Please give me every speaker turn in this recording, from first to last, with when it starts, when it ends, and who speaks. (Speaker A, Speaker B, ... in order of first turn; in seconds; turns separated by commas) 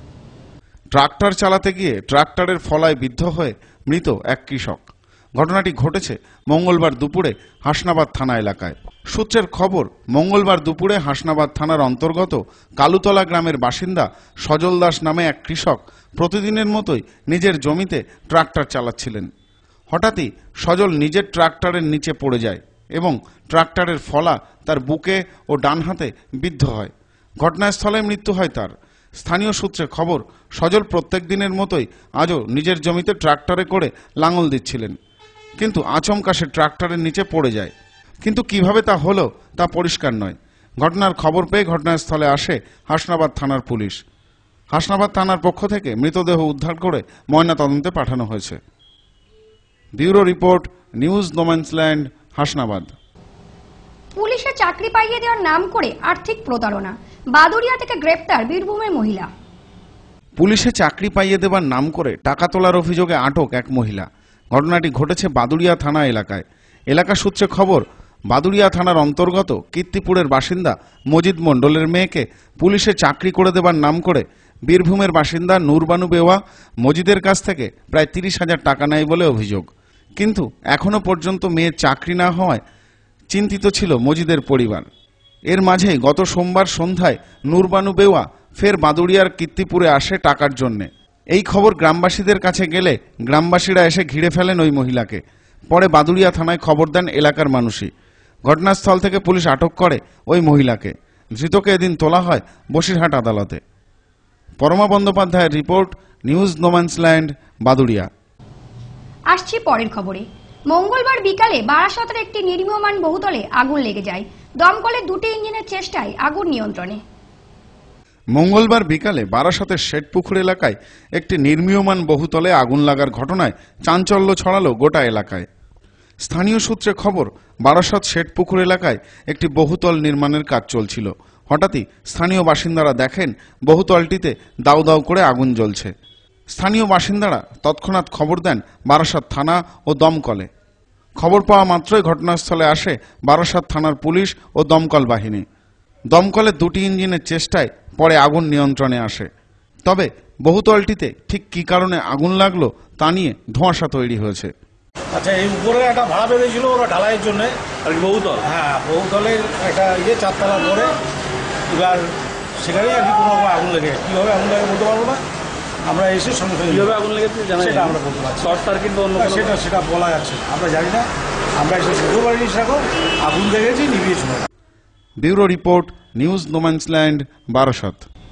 Speaker A: 0.9-19.3, Speaker A: 19.9-35.0, Speaker A: 35.6-37.7, Speaker A: 38.2-44.0, Speaker A: 44.7-48.6, Speaker A: 50.0-52.9, Speaker B: 54.1-59.3, Speaker A: 60.4-82.6, Speaker A: 83.3-84.9, Speaker A: 85.5-97.9, Speaker A: 98.5-103.6, Speaker A: 104.6-108.1, Speaker B: 109.3-117.0, Speaker A: 118.3-125.5, Speaker A: 126.2-135.9, Speaker A: 136.5-140.5, Speaker A: 141.2-145.4, Speaker A: 146.1-149.3, Speaker A: 149.8-154.5, Speaker C: 155.1-157.6, Speaker D: 157.8-158.5, Speaker C: 158.4-160.9, Speaker C: 161.7-165.2, Speaker C: 165.9-166.9, Speaker D: 166.7-169.6, Speaker C: 167.6-168.5, Speaker C: 169.2-174.5, Speaker A: 175.2-178.0